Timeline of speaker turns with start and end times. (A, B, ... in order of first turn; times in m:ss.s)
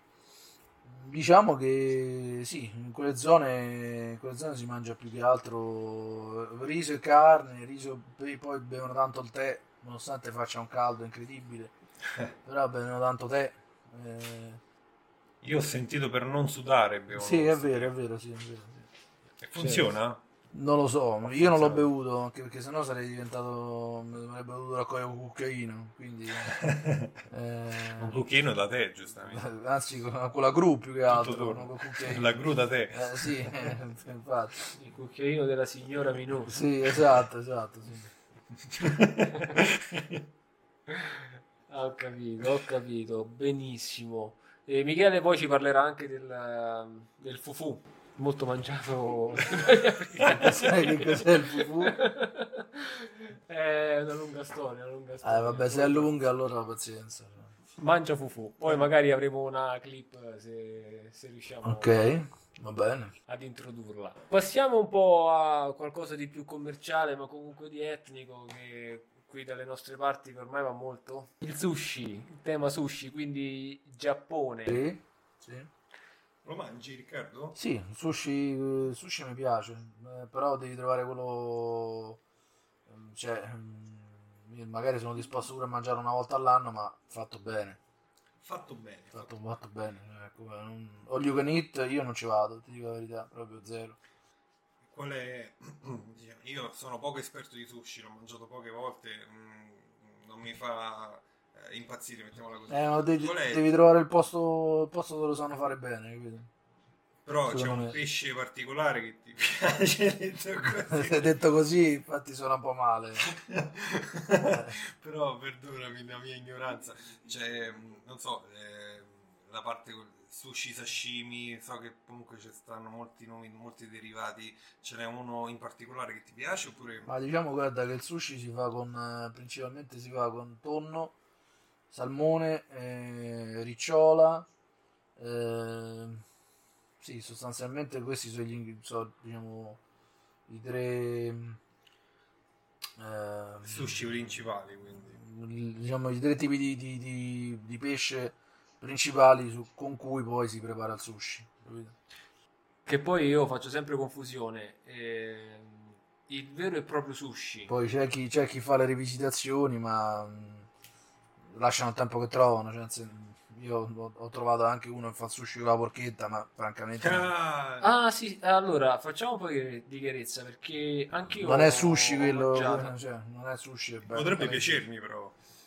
0:00.8-0:11.7 A
0:12.4-0:14.6 A
0:15.4-0:17.9 B
0:17.1-0:18.9 A
0:19.4-0:20.2 B
0:19.6-0:19.9 C
0:20.5-0:26.6 A
0:21.3-0:21.9 B
0:26.4-0:27.1 B
0:27.3-0:28.2 A
0:27.9-0:29.5 B
0:29.3-0:34.6 A
0:31.1-0:33.7 B
0:34.7-0:36.6 C
0:36.5-0:38.1 A
0:38.7-0:40.2 B
0:40.9-0:56.1 C
0:50.2-0:52.0 A
0:55.2-0:57.5 A
0:57.8-1:02.1 C
1:01.6-1:03.1 A
1:03.3-1:14.8 C
1:14.7-1:15.7 A
1:16.4-1:17.6 B
1:17.6-1:22.2 A
1:22.9-1:27.8 A
1:28.4-1:29.3 B
1:29.1-1:34.0 A
1:34.8-1:43.6 B
1:42.7-1:46.5 A
1:47.3-1:51.4 B
1:47.5-1:48.0 A
1:50.8-1:53.3 A
1:53.2-2:07.1 B
1:54.4-1:54.8 A
2:07.1-2:11.2 A
2:11.9-2:14.5 A
2:15.2-2:16.2 A
2:17.0-2:19.8 A
2:20.5-2:21.6 A
2:23.0-2:24.4 A
2:23.6-2:25.2 B
2:25.1-2:32.0 A
2:32.9-2:37.7 C
2:37.7-2:40.7 A
2:41.5-2:47.3 A
2:47.0-2:47.9 B
2:47.8-2:52.9 C
2:51.4-2:54.8 A
2:54.1-2:55.4 B